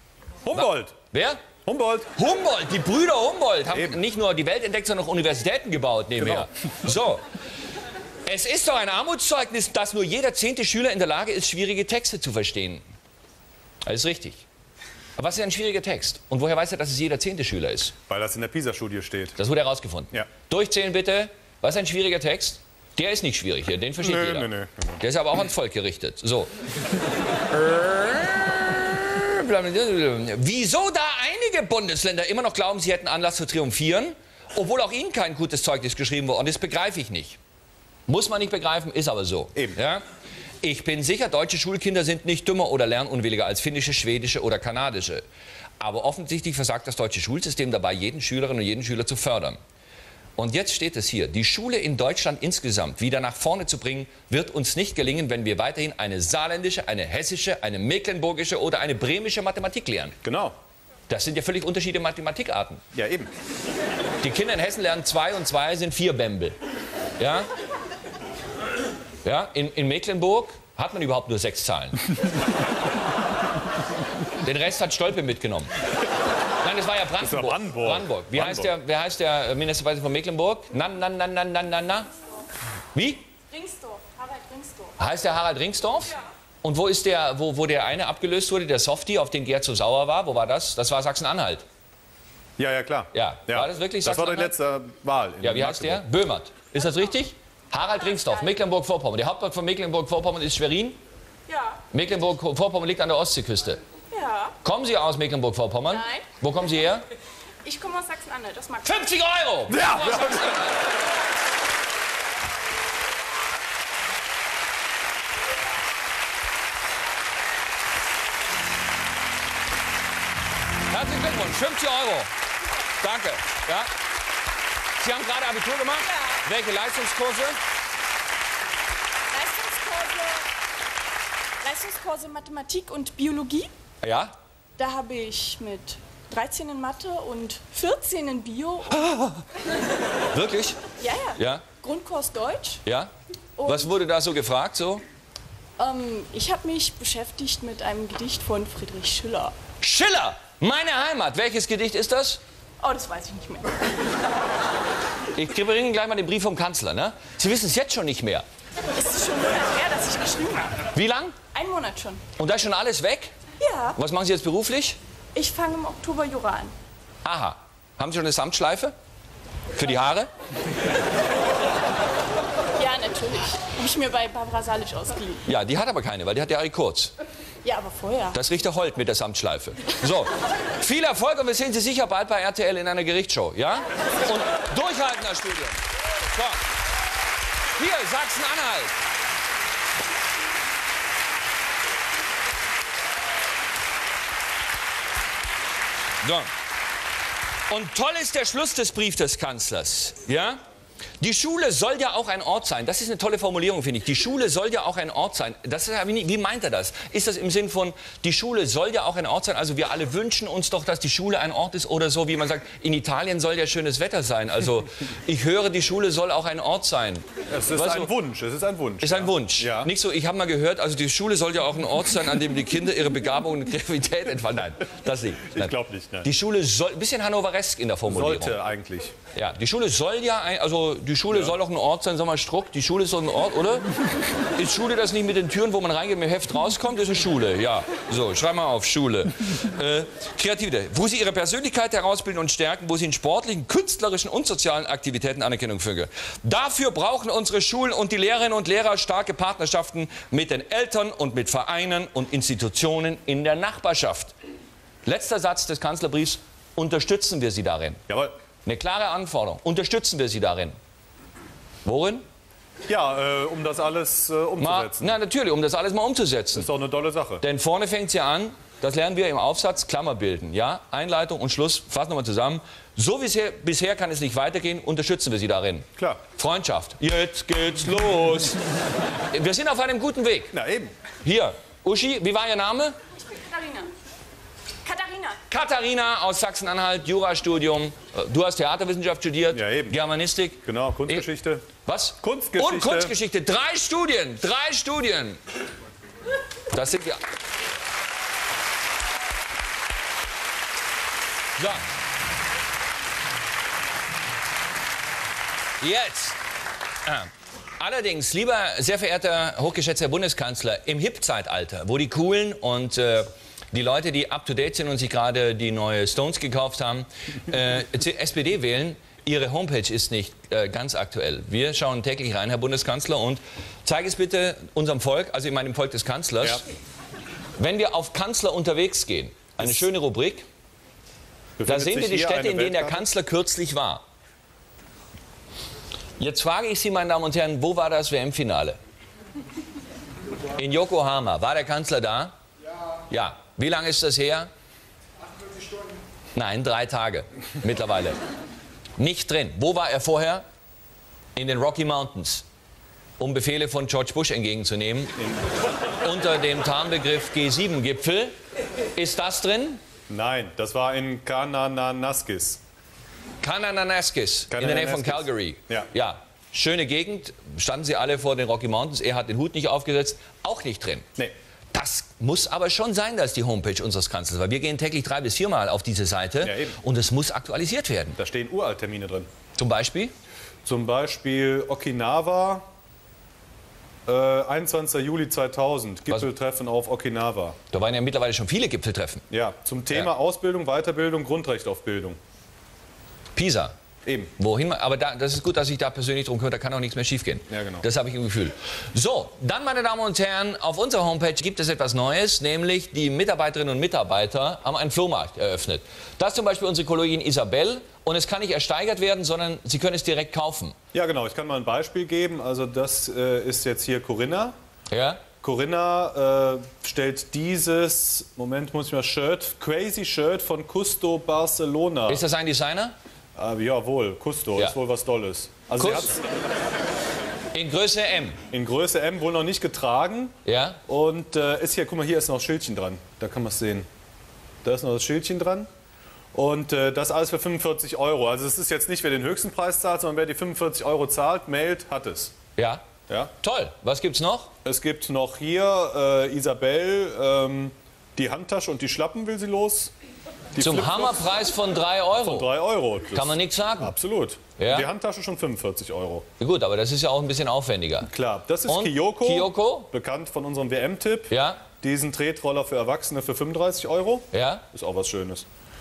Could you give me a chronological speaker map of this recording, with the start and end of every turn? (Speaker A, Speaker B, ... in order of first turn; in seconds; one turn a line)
Speaker A: 0.5-1.0
Speaker B: 0.5-1.4
Speaker A: 1.6-2.1
Speaker B: 2.2-7.2
Speaker A: 3.7-4.0
Speaker A: 6.2-6.5
Speaker B: 8.3-12.8
Speaker B: 13.8-14.4
Speaker B: 15.2-17.9
Speaker A: 18.1-19.4
Speaker B: 19.4-26.5
Speaker A: 24.0-25.0
Speaker B: 27.5-37.4
Speaker B: 38.1-40.0
Speaker B: 40.6-45.2
Speaker B: 45.8-49.6
Speaker B: 50.4-60.2
Speaker A: 60.2-60.5
Speaker B: 61.1-62.8
Speaker A: 62.9-63.3
Speaker B: 64.2-66.6
Speaker B: 67.2-67.5
Speaker B: 69.2-72.1
Speaker B: 74.4-75.7
Speaker B: 76.6-82.1
Speaker A: 77.2-78.7
Speaker B: 83.0-83.2
Speaker C: 83.5-85.0
Speaker B: 85.0-91.7
Speaker A: 92.6-96.0
Speaker B: 93.1-94.6
Speaker B: 95.4-101.0
Speaker C: 101.5-101.8
Speaker B: 101.9-103.8
Speaker C: 104.1-104.6
Speaker B: 104.6-107.0
Speaker C: 105.9-106.3
Speaker C: 107.6-109.1
Speaker B: 108.8-110.9
Speaker A: 109.7-110.7
Speaker B: 120.9-122.3
Speaker B: 123.0-123.9
Speaker B: 125.0-127.6
Speaker C: 129.3-130.5
Speaker C: 131.6-133.7
Speaker B: 134.0-134.3
Speaker C: 134.8-139.0
Speaker B: 138.9-139.4
Speaker B: 140.3-140.8
Speaker C: 141.0-142.8
Speaker B: 141.4-141.6
Speaker B: 142.8-143.1
Speaker C: 143.6-143.9
Speaker B: 143.6-145.0
Speaker C: 145.8-149.6
Speaker B: 149.8-152.4
Speaker C: 152.8-154.0
Speaker B: 155.3-158.4
Speaker C: 159.0-160.9
Speaker B: 160.9-161.4
Speaker C: 161.5-162.2
Speaker B: 162.4-163.3
Speaker C: 163.6-164.0
Speaker B: 164.0-165.0
Speaker C: 165.3-166.8
Speaker B: 167.2-168.9
Speaker B: 169.8-170.3
Speaker C: 172.8-175.4
Speaker B: 175.5-177.1
Speaker C: 177.6-178.4
Speaker B: 178.3-186.6
Speaker B: 187.8-188.9
Speaker B: 196.2-196.5
Speaker B: 197.7-200.6
Speaker B: 201.2-218.1
Speaker A: 217.5-219.9
Speaker B: 219.0-228.6
Speaker A: 225.5-226.3
Speaker A: 228.1-229.2
Speaker B: 229.3-233.9
Speaker B: 234.4-254.3
Speaker B: 255.1-258.0
Speaker B: 258.7-260.8
Speaker B: 261.9-262.3
Speaker A: 262.9-265.2
Speaker B: 264.6-266.7
Speaker A: 266.5-267.4
Speaker B: 267.4-278.6
Speaker B: 279.3-280.5
Speaker A: 280.5-280.9
Speaker B: 281.2-283.0
Speaker C: 283.2-283.9
Speaker C: 284.8-285.4
Speaker B: 285.5-291.3
Speaker A: 289.5-290.0
Speaker A: 290.6-291.7
Speaker B: 291.8-295.4
Speaker A: 292.2-293.1
Speaker B: 296.7-297.2
Speaker B: 301.6-301.8
Speaker B: 305.8-306.4
Speaker B: 307.1-326.6
Speaker B: 327.6-330.5
Speaker A: 331.6-333.1
Speaker B: 331.7-334.0
Speaker B: 336.2-338.8
Speaker B: 340.6-342.4
Speaker B: 343.1-344.5
Speaker B: 346.4-348.2
Speaker B: 349.0-350.4
Speaker B: 351.4-352.4
Speaker B: 353.2-355.2
Speaker A: 355.2-355.4
Speaker B: 356.0-358.4
Speaker B: 359.0-359.8
Speaker A: 360.1-362.6
Speaker B: 363.4-371.1
Speaker A: 364.5-365.9
Speaker B: 371.7-378.2
Speaker A: 376.4-376.8
Speaker A: 378.2-379.3
Speaker B: 379.6-380.1
Speaker A: 380.6-382.7
Speaker A: 384.1-387.6
Speaker B: 387.7-389.2
Speaker A: 389.3-392.2
Speaker B: 393.4-393.8
Speaker A: 394.0-394.3
Speaker B: 394.4-410.8
Speaker A: 397.5-397.9
Speaker A: 410.9-414.6
Speaker B: 414.9-415.2
Speaker A: 415.4-422.2
Speaker B: 422.1-422.9
Speaker A: 423.4-426.2
Speaker B: 425.8-426.1
Speaker B: 427.5-428.4
Speaker A: 428.5-433.9
Speaker B: 430.4-430.8
Speaker A: 434.6-435.7
Speaker A: 436.3-442.4
Speaker B: 442.6-442.9
Speaker B: 443.4-444.5
Speaker A: 444.6-449.9
Speaker A: 450.6-451.3
Speaker B: 450.6-452.5
Speaker A: 452.2-456.3
Speaker B: 453.1-454.0
Speaker B: 454.6-454.9
Speaker B: 456.4-458.1
Speaker A: 458.1-465.5
Speaker B: 458.7-459.9
Speaker B: 461.3-461.6
Speaker B: 464.3-464.6